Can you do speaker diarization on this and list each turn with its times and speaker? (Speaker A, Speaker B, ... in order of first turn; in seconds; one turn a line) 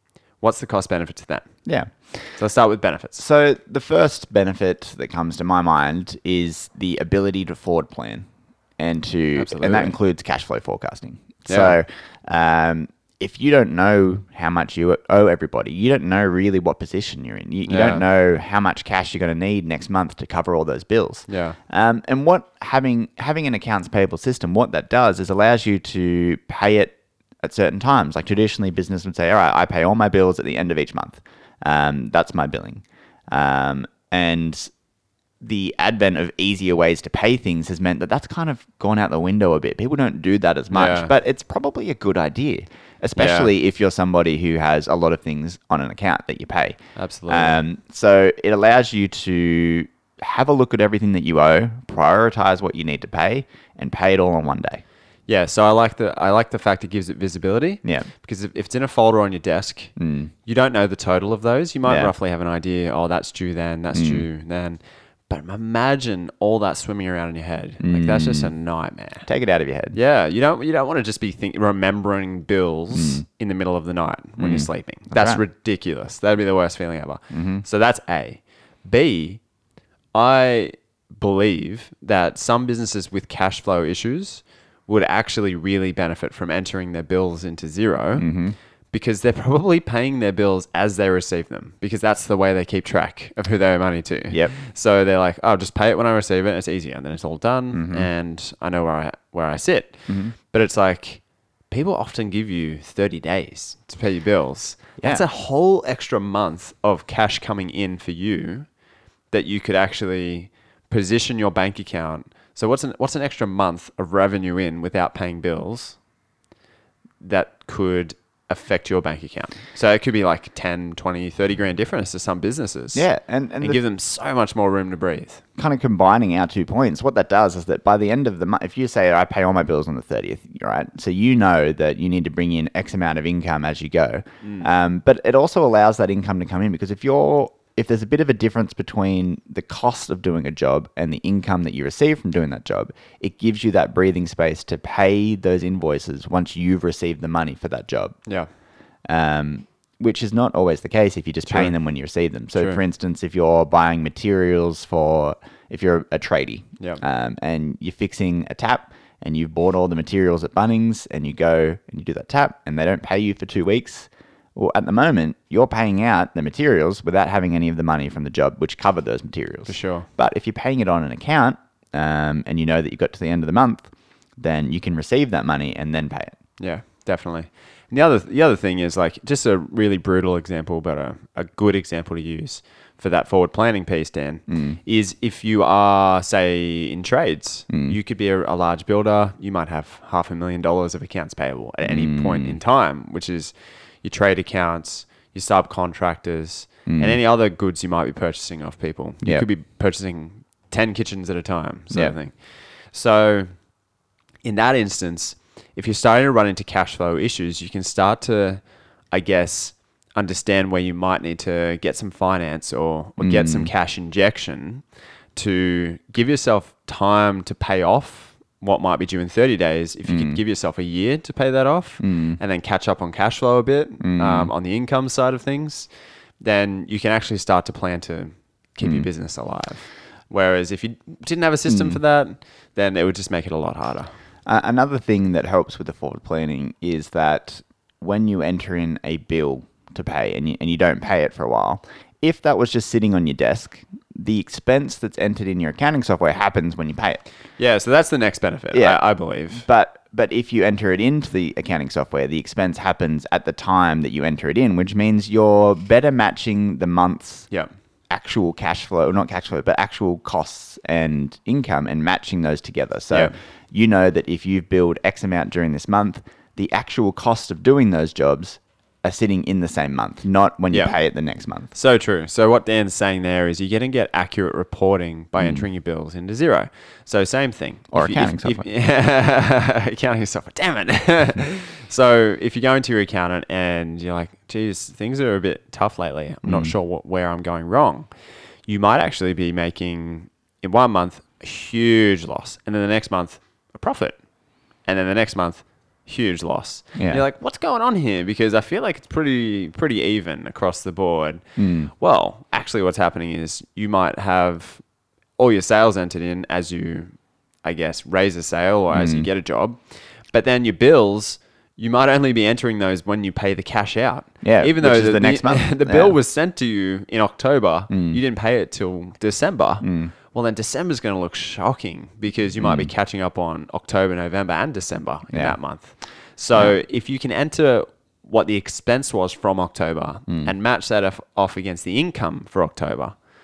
Speaker A: 0.4-1.5
Speaker B: 1.7-2.3
Speaker A: 2.4-3.2
Speaker B: 3.2-34.7
Speaker A: 9.4-10.0
Speaker A: 11.5-11.8
Speaker A: 17.7-18.0
Speaker A: 21.3-21.6
Speaker B: 35.4-46.8
Speaker A: 40.7-41.1
Speaker A: 43.2-43.5
Speaker A: 47.0-47.6
Speaker B: 47.3-54.8
Speaker A: 55.3-59.9
Speaker B: 60.0-60.3
Speaker A: 60.5-69.3
Speaker B: 61.9-62.1
Speaker B: 63.9-64.2
Speaker B: 67.8-68.5
Speaker B: 69.3-70.0
Speaker A: 69.9-79.4
Speaker B: 72.9-73.2
Speaker B: 74.4-75.4
Speaker B: 77.3-77.6
Speaker A: 80.1-88.3
Speaker B: 88.2-88.6
Speaker A: 88.9-108.7
Speaker B: 97.7-98.1
Speaker B: 100.1-100.3
Speaker B: 105.0-105.2
Speaker A: 109.3-116.0
Speaker A: 117.2-123.1
Speaker B: 122.9-123.8
Speaker A: 123.6-125.4
Speaker B: 125.6-148.2
Speaker A: 134.4-134.7
Speaker B: 149.1-176.3
Speaker A: 151.5-151.8
Speaker A: 152.6-152.8
Speaker A: 169.7-170.1
Speaker A: 176.6-203.5
Speaker B: 184.5-184.8
Speaker B: 187.7-188.0
Speaker B: 191.8-192.6
Speaker B: 196.9-197.2
Speaker A: 204.4-214.8
Speaker B: 213.2-213.7
Speaker A: 215.3-225.9
Speaker B: 220.1-220.4
Speaker B: 222.0-222.4
Speaker B: 224.0-224.5
Speaker A: 226.4-234.1
Speaker B: 228.8-229.1
Speaker B: 231.7-232.0
Speaker B: 234.5-247.2
Speaker A: 247.6-249.6
Speaker B: 248.7-249.0
Speaker B: 249.5-257.5
Speaker B: 258.1-271.7
Speaker A: 271.7-288.1
Speaker B: 275.4-275.6
Speaker B: 277.9-278.6
Speaker B: 286.5-286.7
Speaker A: 288.7-294.2
Speaker A: 294.9-301.4
Speaker B: 297.0-297.2
Speaker B: 301.6-301.9
Speaker A: 302.0-304.8
Speaker A: 305.4-307.1
Speaker A: 307.6-333.2
Speaker B: 308.9-309.3
Speaker B: 314.4-316.2
Speaker B: 317.9-318.2
Speaker B: 319.8-320.1
Speaker B: 322.6-322.9
Speaker B: 325.3-325.6
Speaker B: 330.3-330.5